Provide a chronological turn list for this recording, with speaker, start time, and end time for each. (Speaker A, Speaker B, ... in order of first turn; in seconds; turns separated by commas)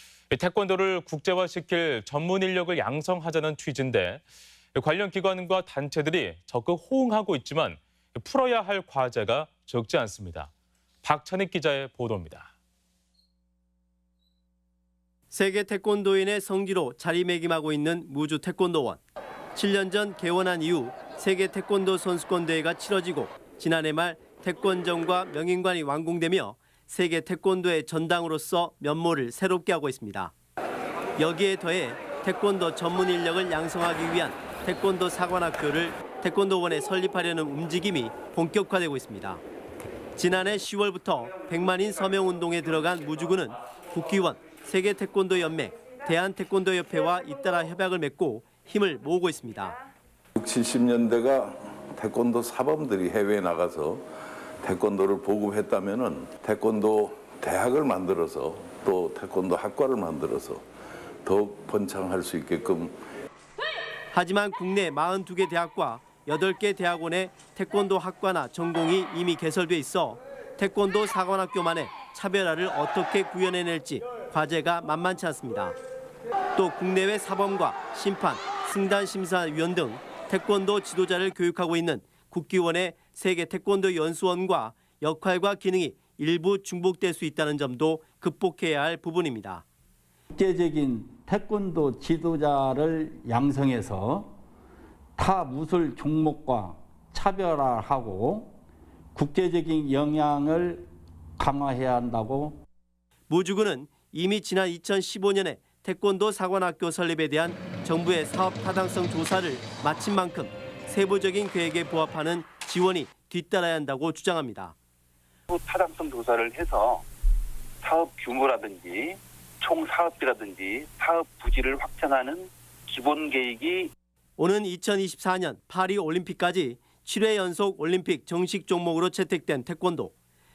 Speaker A: 0.3-4.2, Speaker A: 4.7-10.5, Speaker A: 11.0-12.5, Speaker B: 15.3-19.0, Speaker B: 19.5-30.3, Speaker B: 31.2-39.4, Speaker B: 40.1-49.8, Speaker C: 50.4-54.0, Speaker C: 54.6-60.6, Speaker C: 61.2-62.9, Speaker B: 64.1-75.7, Speaker B: 76.5-89.6, Speaker D: 90.3-94.3, Speaker D: 95.2-98.5, Speaker D: 99.1-100.9, Speaker D: 101.4-102.6, Speaker B: 103.3-114.7, Speaker E: 115.5-117.0, Speaker E: 117.8-123.9, Speaker B: 124.4-130.1